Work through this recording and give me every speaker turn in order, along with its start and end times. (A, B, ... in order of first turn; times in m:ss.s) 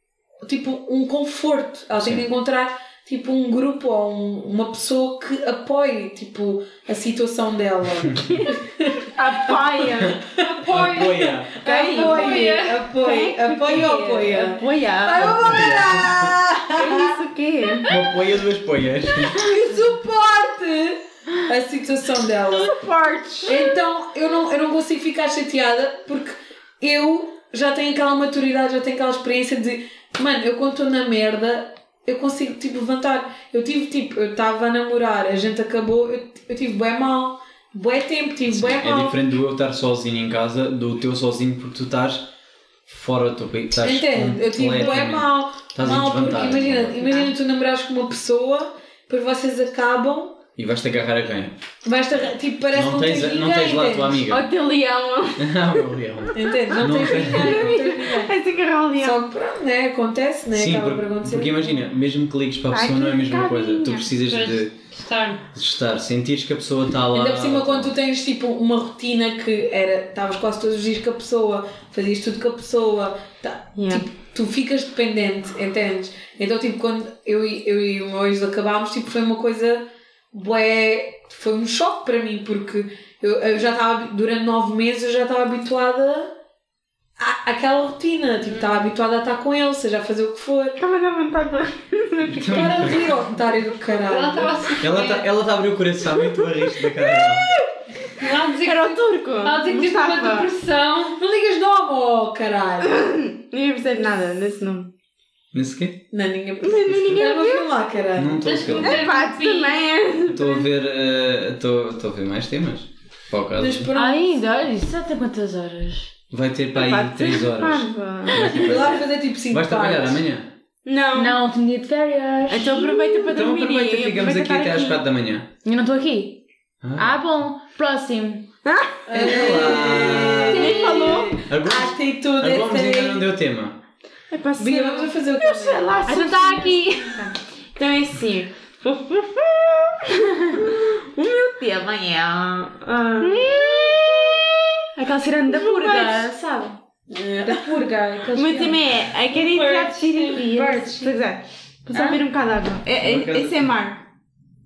0:00.4-0:17.2 A
0:02.0-0:02.3 B
0:08.2-0:08.5 C
0:09.1-0:10.2 C
0:10.4-0:12.9 D
0:10.7-0:11.5 B
0:11.6-0:15.8 C
0:15.2-0:16.4 B
0:16.8-0:17.9 C
0:17.9-0:19.4 B
0:19.3-0:22.8 A
0:22.5-0:23.8 C
0:23.5-0:39.2 A
0:38.5-0:42.3 B
0:42.9-0:47.2 B
0:43.8-0:50.4 A
0:50.6-0:51.6 B
0:51.8-0:54.2 A
0:52.7-0:54.5 B
0:54.2-0:55.6 C
0:55.4-0:57.8 B
0:56.4-0:58.3 A
0:56.7-0:59.2 C
0:59.0-1:01.8 A
1:00.5-1:04.7 B
1:02.7-1:04.1 C
1:04.3-1:05.4 D
1:05.5-1:08.0 B
1:07.1-1:26.3 A
1:13.8-1:14.0 C
1:27.2-1:30.8 A
1:30.8-1:33.0 C
1:32.3-1:33.1 B
1:32.4-1:34.5 A
1:34.0-1:35.3 D
1:34.8-1:37.5 B
1:36.2-1:40.5 C
1:38.2-1:41.2 D
1:41.2-1:43.1 A
1:42.9-1:44.9 C
1:45.5-1:46.0 B
1:46.1-1:48.6 A
1:46.6-1:47.7 C
1:48.2-1:49.1 B
1:48.4-1:49.8 D
1:48.6-1:50.6 C
1:50.3-1:53.9 B
1:53.6-1:54.3 A
1:53.9-1:56.1 E
1:56.3-2:00.5 B
1:56.8-1:58.6 C
1:58.4-2:00.2 A
2:00.8-2:01.4 C
2:01.1-2:03.4 E
2:02.5-2:05.0 C
2:03.3-2:05.5 B
2:05.6-2:06.4 E
2:06.8-2:07.2 B
2:07.0-2:08.5 E
2:08.6-2:11.4 C
2:09.1-2:13.3 A
2:09.2-2:10.8 B
2:11.4-2:13.8 B
2:14.3-2:17.0 C
2:14.6-2:16.1 A
2:16.0-2:17.4 E
2:17.8-2:24.8 C
2:23.2-2:24.4 E
2:25.0-2:28.8 E
2:25.5-2:26.4 C
2:27.2-2:27.7 C
2:28.3-2:34.0 C
2:29.3-2:30.4 D
2:30.4-2:31.2 E
2:31.9-2:32.2 E
2:33.0-2:33.7 B